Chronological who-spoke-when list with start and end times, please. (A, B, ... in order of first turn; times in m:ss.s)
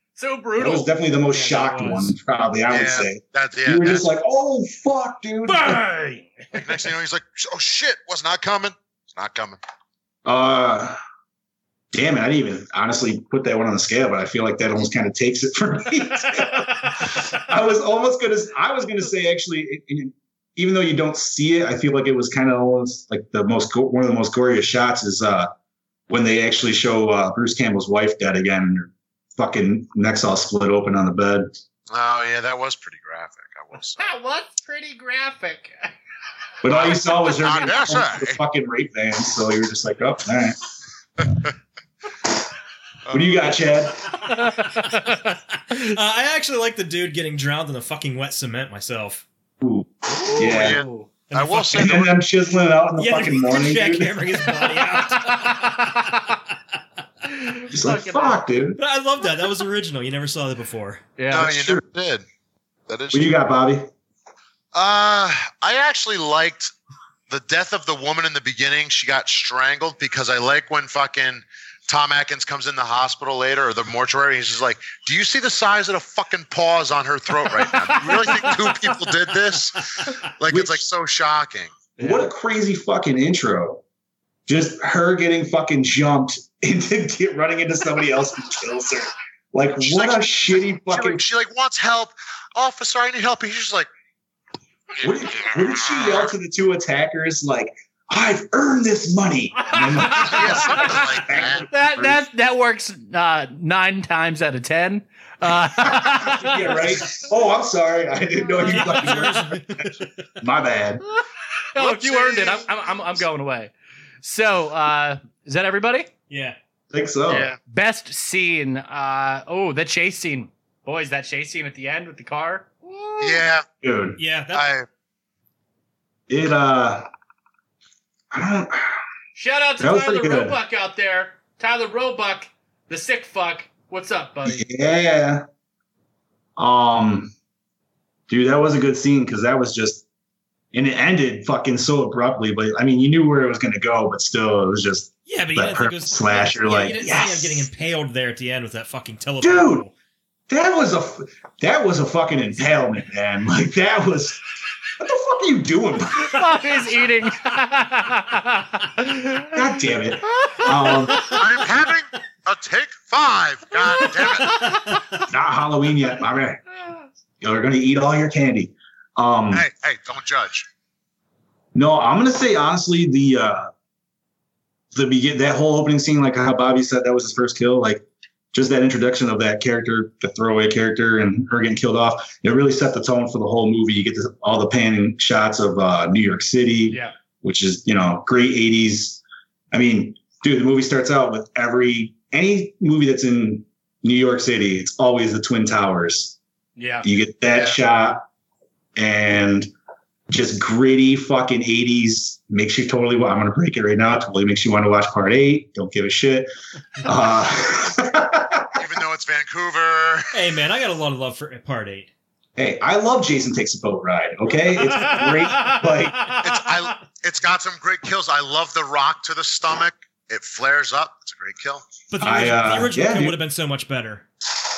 0:00.2-0:02.0 A
0:00.6-0:05.8 B
0:01.4-0:02.1 C
0:02.7-0:04.0 D
0:05.5-0:06.3 A
0:06.5-0:09.6 D
0:10.2-0:11.0 B
0:11.9-0:25.5 B
0:26.1-0:31.5 B
0:31.9-0:34.0 D
0:34.0-0:35.9 A
0:36.6-0:40.6 B
0:36.7-0:38.4 D
0:43.1-0:43.6 D
0:43.1-0:44.1 B
0:44.3-0:45.9 A
0:45.7-0:49.2 C
0:49.6-0:50.8 B
0:50.1-0:51.1 A
0:50.4-0:52.1 D
0:51.3-0:52.1 C
0:51.7-0:54.4 B
0:53.0-0:56.0 C
0:55.3-0:56.3 A
0:57.3-0:58.4 A
0:57.7-0:58.8 B
0:58.8-1:01.0 C
1:01.2-1:01.5 A
1:01.3-1:02.2 D
1:01.3-1:01.8 B
1:02.9-1:03.3 D
1:03.1-1:03.9 B
1:04.7-1:06.7 D
1:07.3-1:21.9 D
1:18.3-1:18.6 A
1:20.5-1:20.8 B
1:22.0-1:23.8 B
1:24.5-1:31.3 B
1:29.8-1:33.9 D
1:35.0-1:42.2 B
1:35.4-1:36.1 D
1:39.7-1:40.6 A
1:40.1-1:41.7 D
1:41.7-1:46.6 A
1:45.6-1:51.0 B
1:48.7-1:50.1 C
1:48.7-1:49.1 A
1:51.8-1:56.1 A
1:51.8-1:52.6 D
1:56.3-1:56.6 C
1:56.9-1:57.5 B
1:57.3-2:03.5 A
2:03.2-2:03.6 D
2:03.8-2:04.2 B
2:04.2-2:04.7 C
2:04.5-2:04.9 D
2:06.3-2:07.1 B
2:08.3-2:09.0 B
2:09.4-2:14.7 A
2:09.8-2:10.6 B
2:14.4-2:15.4 B
2:16.6-2:17.3 B
2:18.3-2:20.0 B
2:20.7-2:27.7 B
2:25.3-2:29.9 C
2:29.4-2:29.9 B
2:30.5-2:34.4 B
2:35.0-2:36.5 B
2:36.2-2:39.6 A
2:39.5-2:41.3 B
2:40.3-2:41.4 A
2:41.2-2:44.8 D
2:44.0-2:45.0 A
2:45.3-2:46.6 B
2:47.4-2:49.7 B
2:49.5-2:50.7 D
2:51.7-2:53.7 B
2:54.9-3:09.2 B
3:09.7-3:16.4 B
3:16.8-3:17.1 A
3:17.0-3:18.2 B
3:17.5-3:17.8 D
3:19.0-3:19.7 B
3:20.3-3:26.5 B
3:27.0-3:28.7 B
3:28.8-3:30.3 D
3:30.3-3:32.1 C
3:32.6-3:36.4 B
3:34.7-3:36.4 A
3:36.4-3:41.9 D
3:42.1-3:44.3 C
3:42.2-3:43.4 B